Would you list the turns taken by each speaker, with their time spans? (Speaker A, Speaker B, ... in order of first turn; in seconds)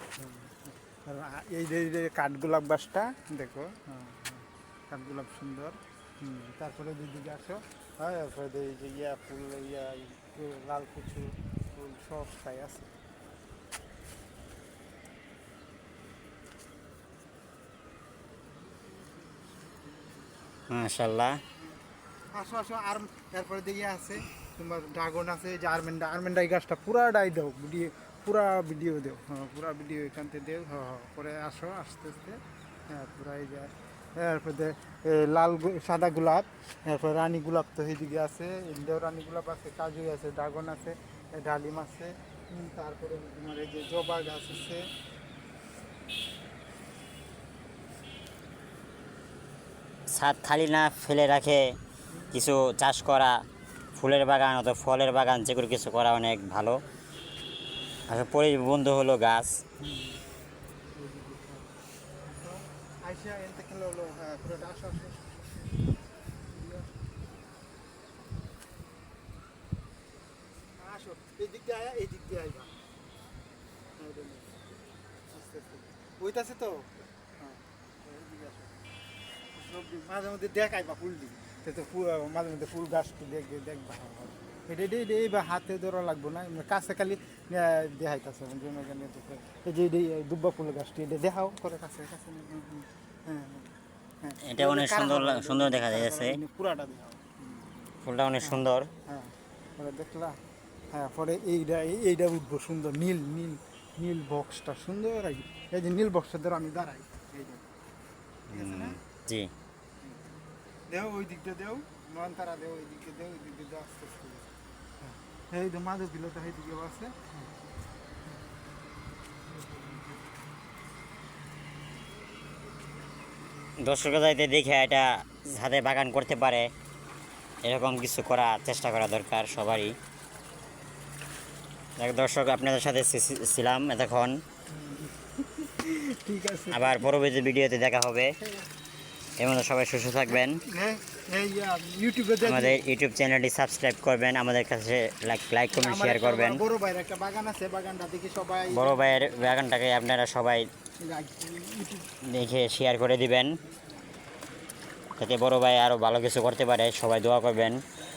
Speaker A: 0.2-12.9, 22.3-44.9, 52.1-52.5, 59.8-60.2, 60.9-61.7, 62.3-65.6, 66.5-67.0, 70.8-72.7, 74.0-74.6, 75.3-78.8, 79.5-93.7, 94.2-97.7, 98.4-100.4, 100.9-107.7, 108.5-109.0, 110.9-117.5, 119.5-120.2, 134.7-137.1, 140.3-142.8, 145.7-149.5, 151.0-152.1
Speaker B: 20.7-21.4, 50.1-51.7, 52.3-53.4, 54.0-56.8, 58.1-59.6, 94.4-96.4, 98.0-98.9, 108.5-109.5, 123.8-126.7, 127.6-130.0, 132.0-134.3, 136.7-138.3, 139.4-140.6, 142.4-146.6, 148.7-150.7, 152.3-153.6, 155.2-157.8